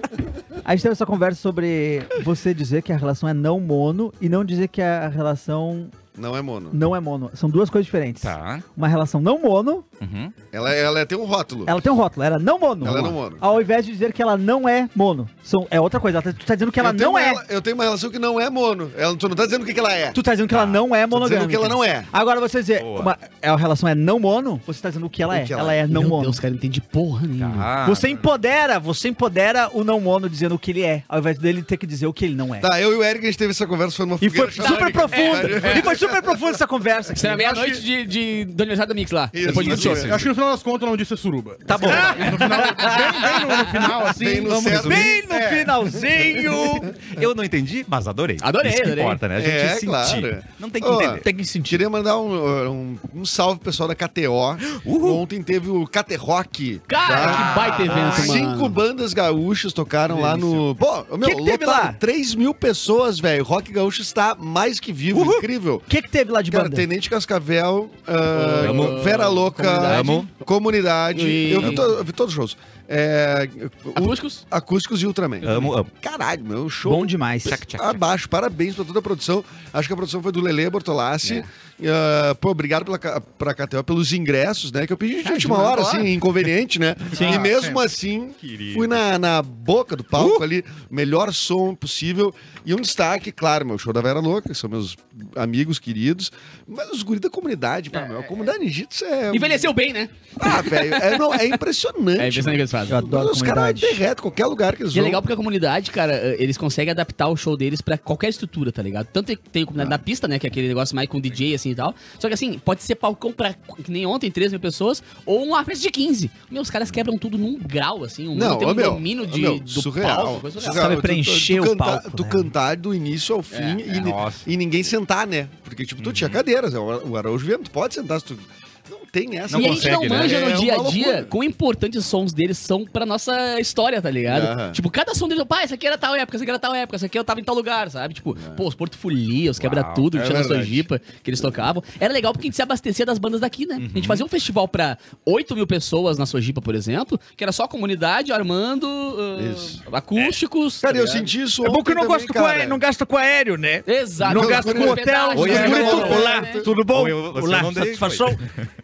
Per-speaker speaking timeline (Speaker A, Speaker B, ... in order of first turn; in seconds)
Speaker A: 0.6-5.9, 6.7-9.8, 11.7-17.4, 20.1-26.4, 27.8-32.7, 34.2-37.8, 41.8-43.9, 44.8-46.9, 51.2-51.8, 58.0-58.4, 61.2-62.0, 65.2-66.8, 76.8-77.6, 102.9-104.0, 120.6-122.5, 151.6-158.4
Speaker B: 6.1-6.8, 10.5-11.8, 12.8-13.4, 16.8-20.2, 21.1-22.1, 25.3-25.8, 32.6-36.3, 39.3-40.2, 44.0-45.2, 46.2-46.7, 49.4-65.9, 66.5-99.7, 100.4-105.2, 118.3-131.3, 134.3-134.8, 138.3-138.6, 140.1-140.9, 149.3-149.8, 150.8-152.8, 154.2-156.7
Speaker C: 8.2-8.6, 10.0-10.3, 20.5-20.8, 22.8-23.1, 27.4-28.1, 39.5-40.2, 41.7-42.4, 44.4-45.2, 47.1-51.2, 54.6-55.2, 57.1-58.2, 68.6-69.0, 69.9-70.3, 71.6-71.9, 75.4-75.9, 77.4-78.0, 88.4-89.0, 123.9-124.5, 126.0-126.4, 129.5-130.4, 139.6-140.1, 143.8-144.2, 155.3-156.1, 156.7-158.6
Speaker D: 25.9-27.7, 34.6-35.9, 37.1-40.1, 42.2-43.1, 48.4-49.2, 56.9-58.8, 60.1-60.6, 68.3-70.3, 71.1-71.8, 73.9-74.4, 85.2-86.1, 99.3-101.6, 102.2-103.0, 104.9-121.0, 123.5-123.8, 129.5-151.3, 153.8-156.7
Speaker E: 40.0-45.7, 87.3-87.8